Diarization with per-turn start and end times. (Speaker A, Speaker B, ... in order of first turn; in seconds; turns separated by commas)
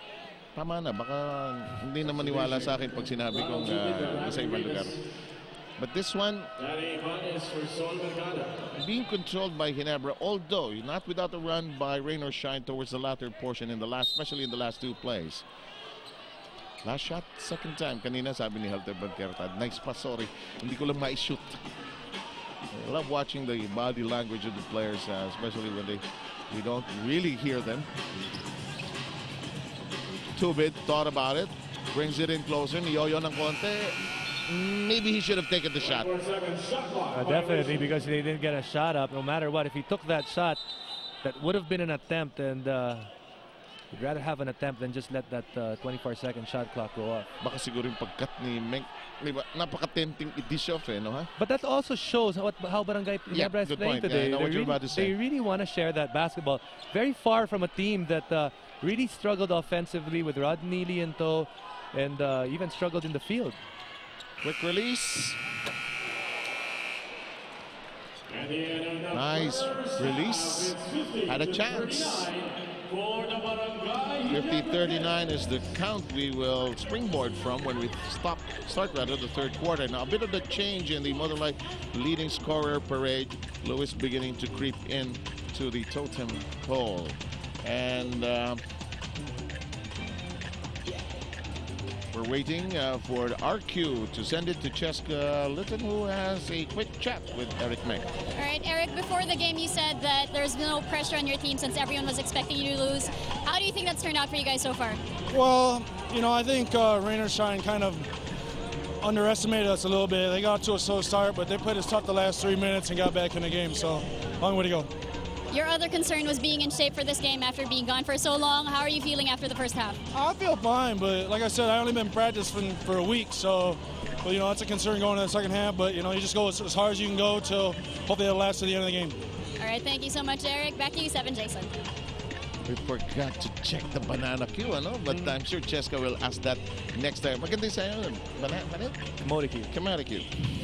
Speaker A: 0.6-5.0, Speaker B: 2.1-5.0, Speaker A: 5.8-6.5, Speaker B: 6.6-8.7, Speaker A: 8.7-15.5, Speaker A: 16.8-21.7, Speaker A: 22.8-27.9, Speaker A: 30.3-36.1, Speaker B: 35.8-37.8, Speaker C: 37.1-40.6, Speaker C: 41.2-43.1, Speaker C: 43.9-47.3, Speaker A: 47.4-51.3, Speaker C: 51.4-63.6, Speaker A: 53.3-55.1, Speaker A: 64.4-65.4, Speaker B: 68.3-75.1, Speaker A: 69.1-72.3, Speaker A: 74.3-88.6, Speaker A: 92.1-98.2, Speaker D: 98.4-105.0, Speaker E: 105.3-108.1, Speaker E: 109.0-114.9, Speaker D: 115.5-120.0, Speaker E: 120.1-129.2, Speaker D: 129.6-131.7, Speaker A: 132.7-139.0, Speaker C: 139.2-139.7, Speaker A: 139.7-140.3